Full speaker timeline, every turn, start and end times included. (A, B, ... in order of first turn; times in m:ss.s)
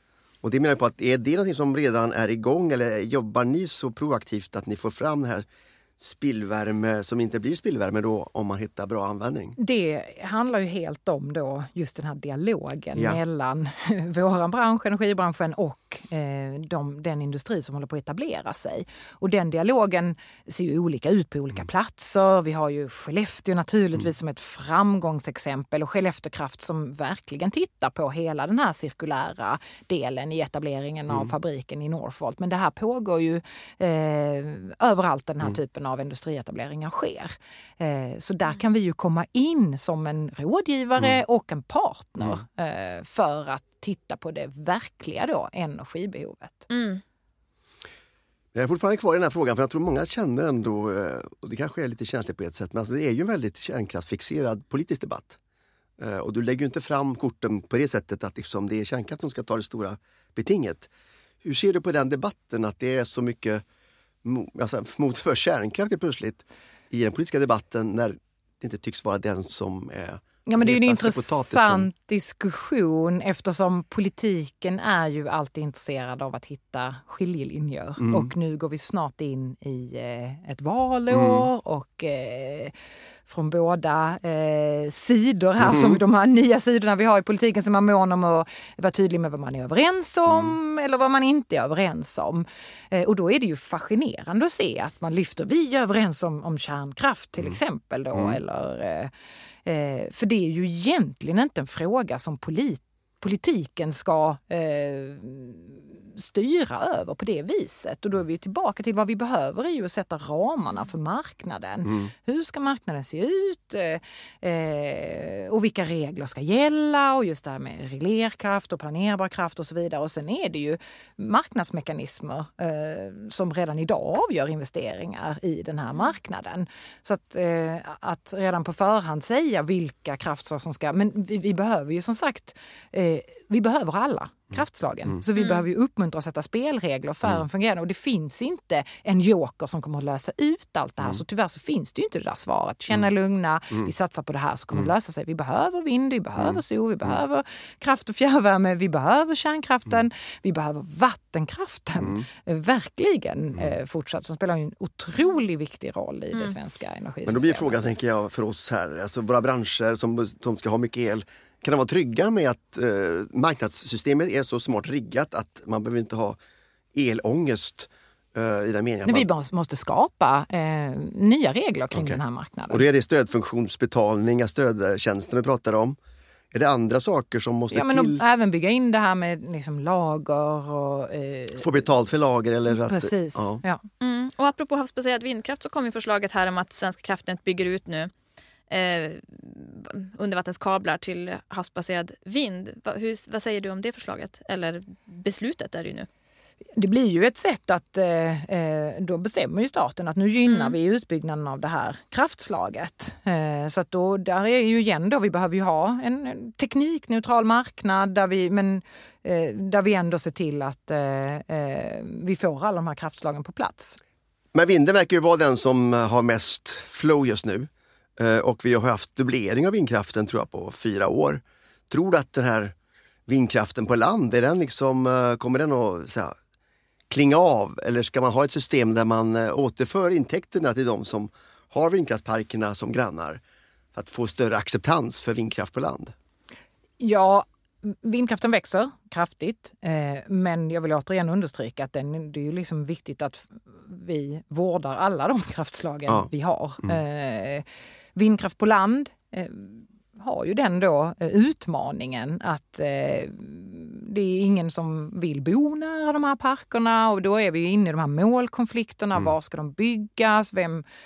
0:00.4-0:05.4 A
0:06.0-0:09.6 A
0:09.6-0:46.7 B
0:46.7-0:47.0 C
0:48.5-0:55.4 A
0:56.0-1:00.9 A
1:01.4-1:03.6 A
1:04.2-1:11.9 A
1:10.4-1:22.7 B
1:18.0-1:18.3 A
1:21.2-1:21.4 A
1:23.3-1:39.1 B
1:25.7-1:25.9 A
1:39.6-2:37.8 B
2:37.2-2:46.4 A
2:46.9-2:49.3 A
2:49.0-2:52.8 B
2:52.7-2:56.0 A
2:56.5-2:58.2 A
2:57.7-3:01.7 B
3:01.6-3:03.6 A
3:02.8-3:03.8 B
3:04.0-3:08.1 C
3:08.7-3:16.1 C
3:16.8-3:34.0 B
3:20.5-3:20.7 C
3:34.5-3:42.7 A
3:43.3-3:46.3 A
3:47.1-3:53.4 A
3:53.9-3:56.1 A
3:57.0-4:20.8 B